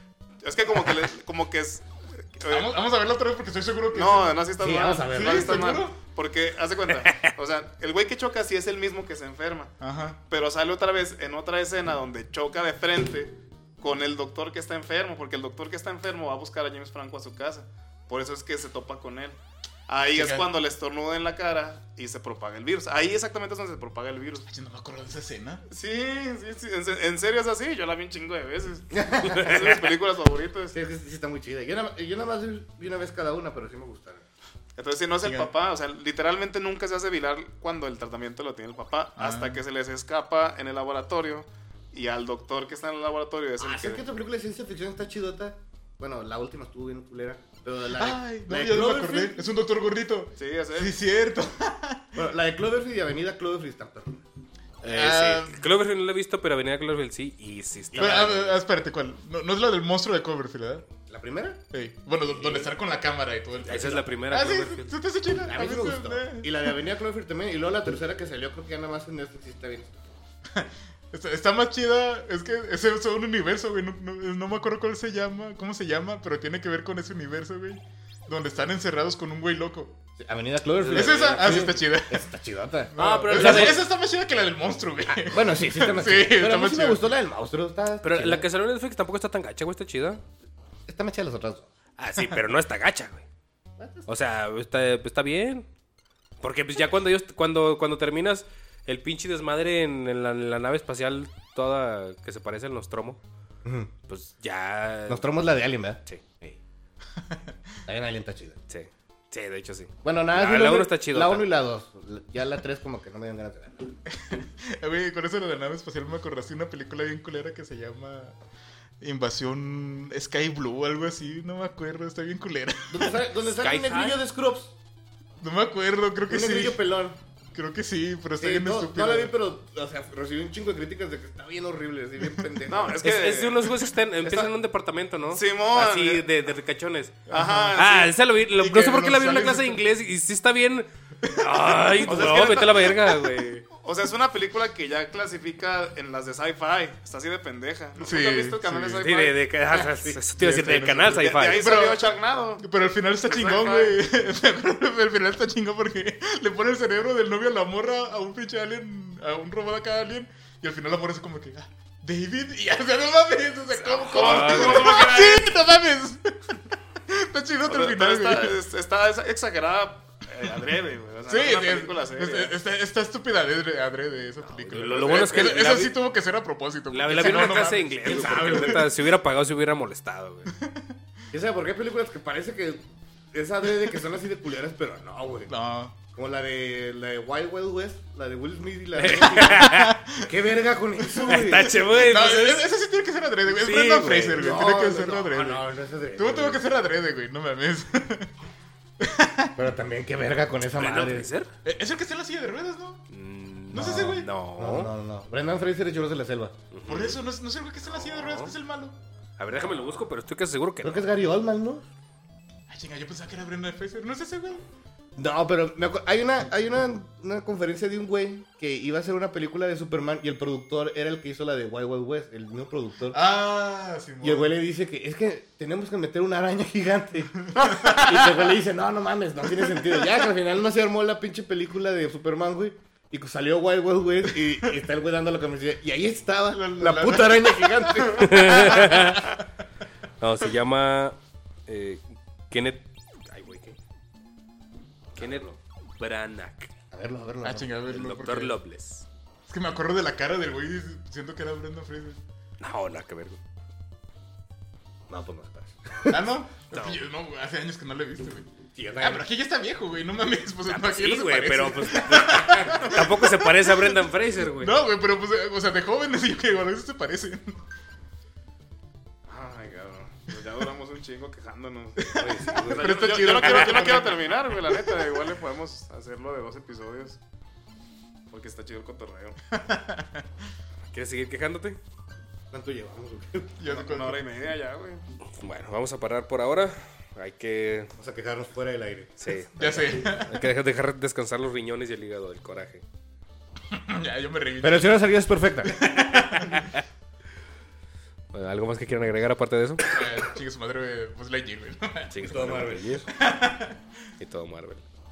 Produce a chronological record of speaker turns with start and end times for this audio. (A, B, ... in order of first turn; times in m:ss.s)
0:00.4-0:02.7 A
0:02.5-0:04.4 B
0:03.9-0:09.7 A
0:04.6-0:05.6 C
0:05.1-0:06.0 B
0:09.8-0:10.2 B
0:10.3-0:19.4 A
0:19.9-0:24.5 A
0:20.1-0:20.5 B
0:24.5-0:25.6 B
0:25.7-0:30.8 A
0:28.9-0:29.7 C
0:29.4-0:29.7 D
0:30.7-0:34.2 C
0:34.8-0:44.0 A
0:35.2-0:35.5 B
0:39.2-0:39.6 B
0:43.6-0:49.4 C
0:48.0-0:52.1 B
0:50.4-0:50.9 A
0:52.2-0:54.2 C
0:54.8-0:58.5 D
0:54.9-0:55.6 B
0:58.0-1:00.8 B
0:58.0-0:58.3 C
1:01.1-1:01.6 C
1:01.7-1:06.8 B
1:03.7-1:04.9 D
1:05.5-1:10.2 C
1:10.5-1:20.0 B
1:20.2-1:23.8 C
1:20.8-1:21.7 D
1:20.9-1:22.3 B
1:22.9-1:27.0 B
1:23.0-1:23.8 D
1:25.1-1:28.5 C
1:28.0-1:30.2 D
1:30.9-1:31.7 C
1:32.0-1:33.2 D
1:33.8-1:34.0 C
1:34.1-1:35.7 D
1:36.4-1:43.2 D
1:43.6-1:43.9 C
1:44.1-1:45.3 D
1:45.1-1:46.6 C
1:47.2-1:47.6 B
1:47.9-1:48.6 C
1:48.7-1:51.5 D
1:50.0-1:54.0 C
1:54.1-1:58.4 B
1:59.0-2:03.2 B
2:02.9-2:04.7 C
2:03.5-2:04.2 D
2:05.4-2:06.8 B
2:06.3-2:07.2 C
2:07.5-2:09.3 B
2:08.4-2:13.0 C
2:12.2-2:12.5 B
2:12.7-2:14.5 A
2:13.0-2:17.2 D
2:15.3-2:16.3 A
2:17.3-2:17.8 B
2:17.3-2:18.1 A
2:17.8-2:23.7 D
2:18.6-2:19.9 B
2:21.2-2:22.4 B
2:22.0-2:23.1 A
2:22.2-2:22.6 C
2:23.8-2:29.9 A
2:28.0-2:29.1 B
2:29.0-2:31.8 D
2:29.9-2:30.2 C
2:30.4-2:46.4 B
2:31.2-2:32.6 A
2:33.3-2:34.0 A
2:43.7-2:45.1 D
2:44.0-2:45.5 A
2:47.1-2:48.6 B
2:47.7-2:52.5 A
2:51.3-2:59.0 B
2:54.5-2:56.0 D
2:56.9-3:00.5 D
2:57.2-2:57.6 C
2:58.3-2:58.8 C
3:00.5-3:00.9 B
3:01.3-3:05.5 C
3:05.5-3:06.0 B
3:06.1-3:11.8 C
3:09.0-3:10.0 D
3:09.6-3:10.2 B
3:11.2-3:15.6 B
3:11.3-3:12.7 D
3:13.5-3:14.5 D
3:14.4-3:16.6 C
3:16.2-3:18.3 B
3:19.0-3:19.6 B
3:19.6-3:21.3 C
3:20.8-3:21.5 D
3:21.6-3:23.0 B
3:23.1-3:24.9 D
3:23.7-3:24.3 B
3:23.8-3:26.5 C
3:26.7-3:27.2 D
3:26.9-3:29.0 B
3:27.9-3:28.6 D
3:29.4-3:31.1 D
3:30.8-3:31.9 C
3:32.7-3:34.6 B
3:35.2-3:43.2 C
3:43.1-3:44.5 B
3:44.2-3:47.4 C
3:47.5-3:48.3 B
3:47.6-3:48.2 A
3:47.9-3:58.7 C
3:49.6-3:49.9 B
3:54.3-3:54.8 B
3:56.5-3:59.2 B
3:58.1-3:59.3 D
4:00.2-4:03.8 D
4:05.2-4:06.7 D
4:05.2-4:05.6 C
4:06.9-4:07.7 C
4:07.4-4:08.6 B
4:07.9-4:09.1 D
4:09.5-4:12.2 B
4:12.6-4:13.4 D
4:15.1-4:16.3 C
4:16.1-4:18.5 B
4:16.7-4:17.0 D
4:18.7-4:19.3 C
4:19.0-4:27.6 B
4:20.7-4:24.8 D
4:29.3-4:37.2 A
4:32.0-4:35.2 B
4:32.1-4:33.2 C
4:33.3-4:34.0 D
4:38.3-4:39.4 A
4:39.5-4:40.3 B
4:40.9-4:41.8 D
4:42.5-4:43.6 C
4:43.6-4:44.2 B
4:43.7-4:45.0 A
4:45.4-4:47.9 D
4:48.0-4:50.2 C
4:49.2-4:52.8 D
4:49.6-4:50.4 B
4:53.7-4:54.9 B
4:54.6-4:55.8 C
4:55.6-4:56.7 B
4:56.3-4:56.8 D
4:58.3-5:00.0 D
4:59.8-5:02.1 B
5:02.1-5:03.1 D
5:02.2-5:03.0 C
5:03.1-5:03.8 B
5:04.2-5:04.8 D